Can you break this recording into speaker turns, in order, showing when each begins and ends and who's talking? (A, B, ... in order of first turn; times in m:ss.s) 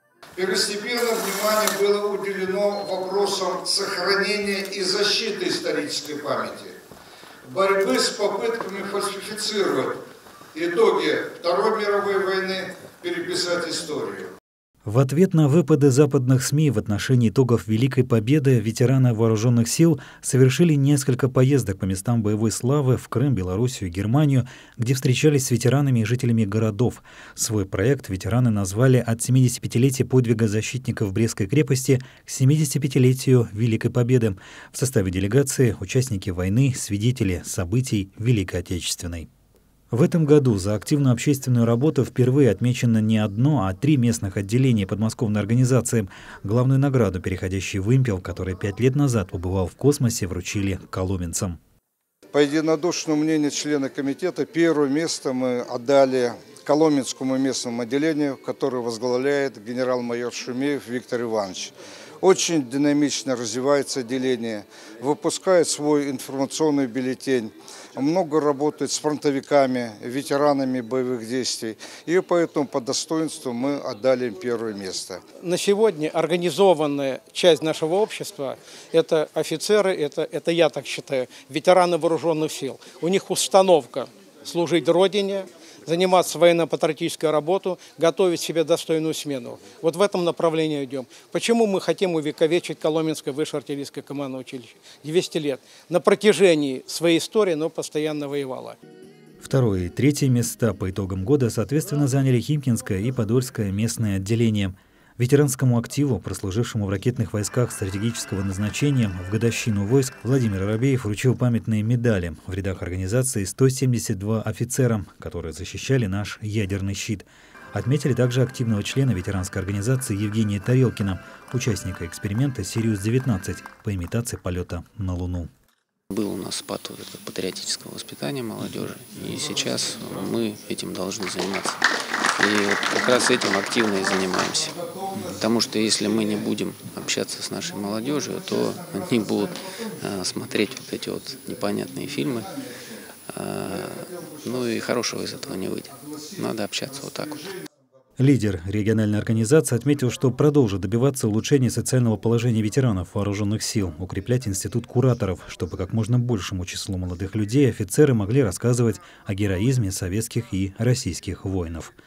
0:00.4-0:06.8 A
0:07.5-0:10.0 A
0:10.5-0:14.3 A
0:14.8-0:39.3 B
0:39.9-0:51.6 B
0:52.3-1:15.2 A
1:15.4-1:38.8 C
1:39.4-2:05.5 B
2:06.1-2:11.8 D
2:12.4-2:22.6 D
2:23.3-2:27.5 D
2:28.2-2:41.9 B